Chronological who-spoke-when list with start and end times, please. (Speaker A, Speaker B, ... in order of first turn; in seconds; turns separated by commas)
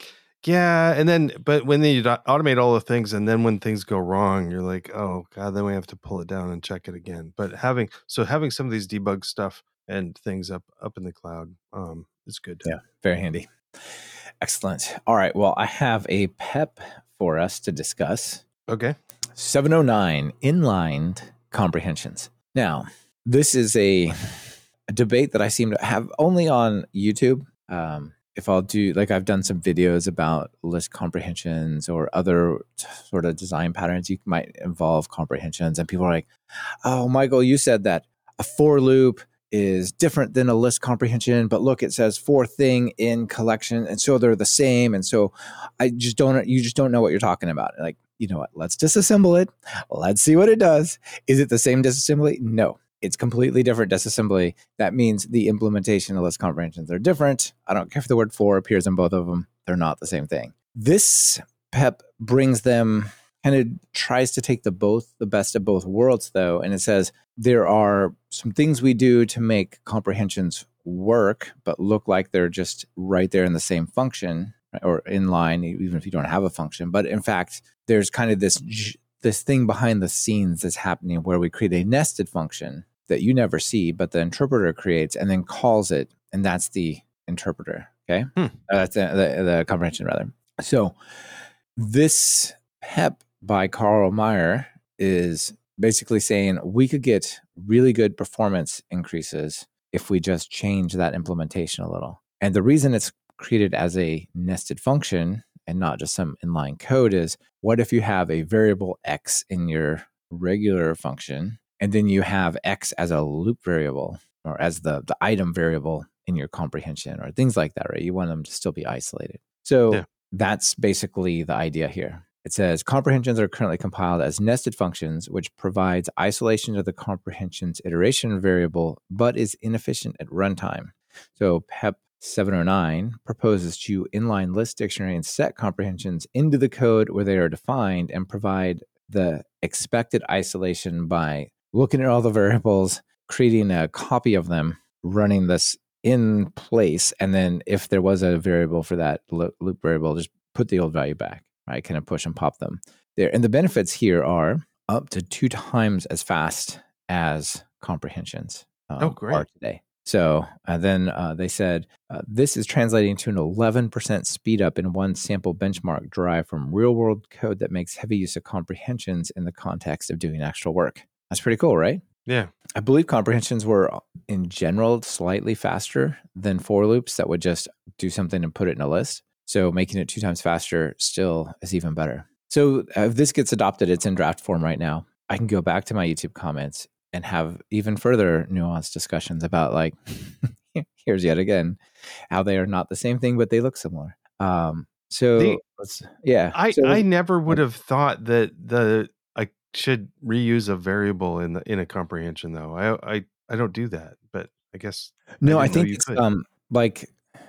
Speaker A: 0.4-12.7, Speaker B: 12.6-13.5, Speaker B: 14.4-18.4, Speaker A: 18.7-19.0, Speaker B: 19.4-36.3, Speaker B: 36.8-172.0, Speaker A: 159.0-159.5, Speaker A: 172.3-172.5, Speaker B: 172.8-191.8, Speaker B: 192.3-197.6, Speaker A: 196.5-206.2, Speaker B: 205.4-207.2